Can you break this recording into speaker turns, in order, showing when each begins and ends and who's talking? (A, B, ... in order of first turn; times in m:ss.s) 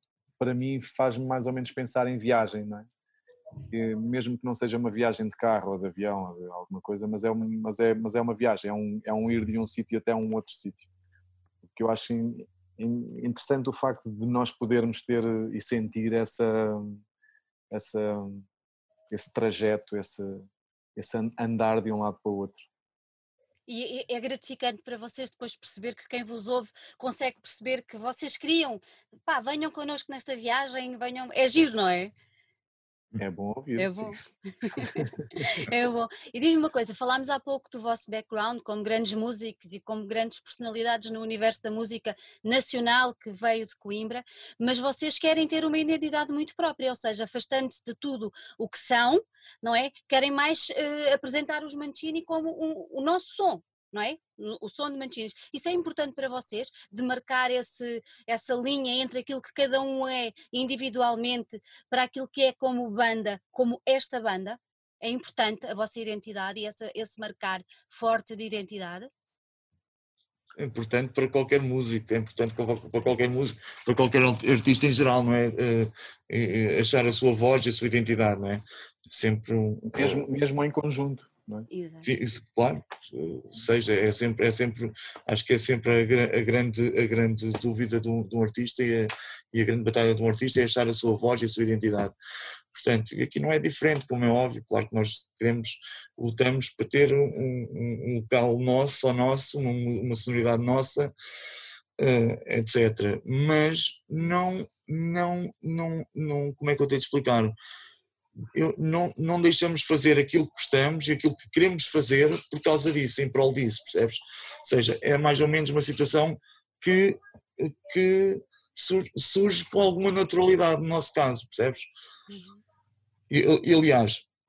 0:00.4-0:02.9 A
0:03.7-0:10.9 A
0:11.6-0:17.0 A
0:17.7-0:18.4 A
0:19.1-0:22.6 A
0:23.7-0:32.1 B
0:33.2-0:34.2 A
0:33.8-1:09.1 B
0:34.8-0:35.5 A
1:10.6-1:20.3 C
1:19.9-1:21.7 A
1:21.7-1:22.1 B
1:22.0-1:32.1 C
1:32.7-1:41.1 C
1:42.0-1:47.5 C
1:48.5-2:01.9 C
2:02.3-2:02.6 B
2:03.3-2:04.2 C